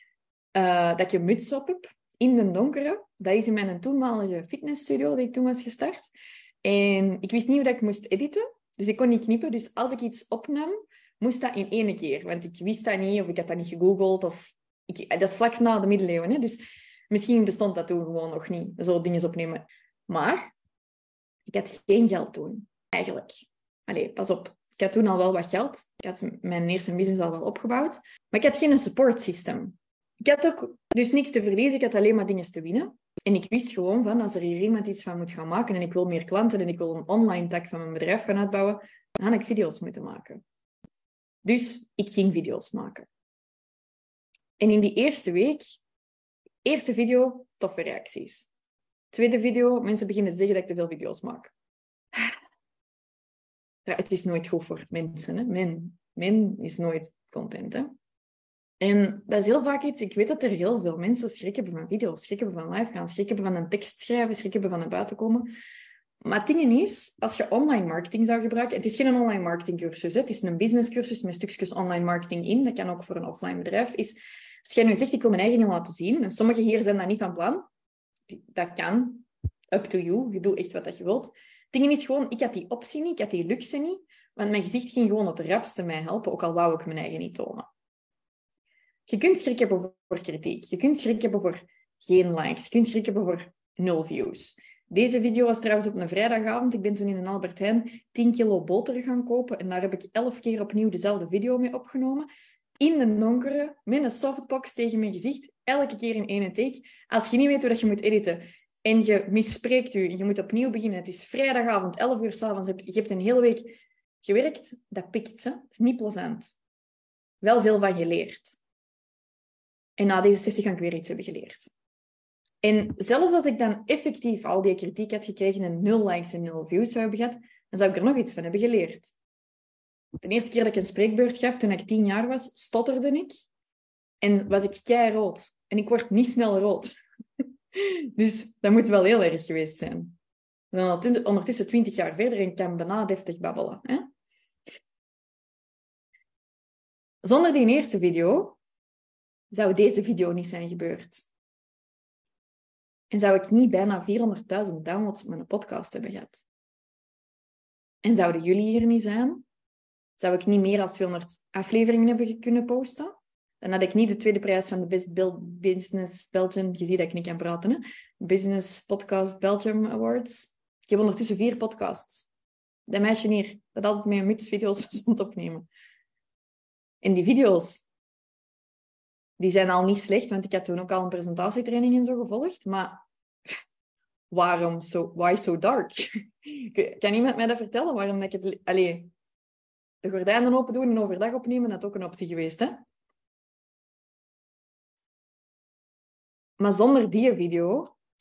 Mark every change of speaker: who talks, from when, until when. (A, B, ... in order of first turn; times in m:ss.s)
0:00.5-0:06.1 A
0:06.6-0:16.6 A
0:17.1-0:20.5 A
0:21.5-0:40.4 A
0:41.4-0:43.1 A
0:44.6-0:45.8 A
0:46.6-0:48.5 A
0:49.1-0:51.5 A
0:53.8-0:57.9 A
0:58.8-1:05.5 A
1:06.2-1:17.6 A
1:18.3-1:27.7 A
1:29.1-1:42.3 A
1:42.8-1:56.5 A
1:57.4-1:58.6 A
2:00.0-2:01.7 A
2:02.6-2:09.1 A
2:10.2-2:13.4 A
2:14.2-2:16.9 A
2:17.7-2:20.1 A
2:20.7-2:24.1 A
2:27.2-2:28.6 A
2:29.5-2:31.2 A
2:33.1-2:36.4 A
2:38.0-2:39.4 A
2:40.2-2:52.3 A
2:52.9-2:55.7 A
2:57.0-2:57.8 A
2:59.4-3:03.0 A
3:04.3-3:09.1 A
3:10.0-3:12.8 A
3:16.6-3:17.9 A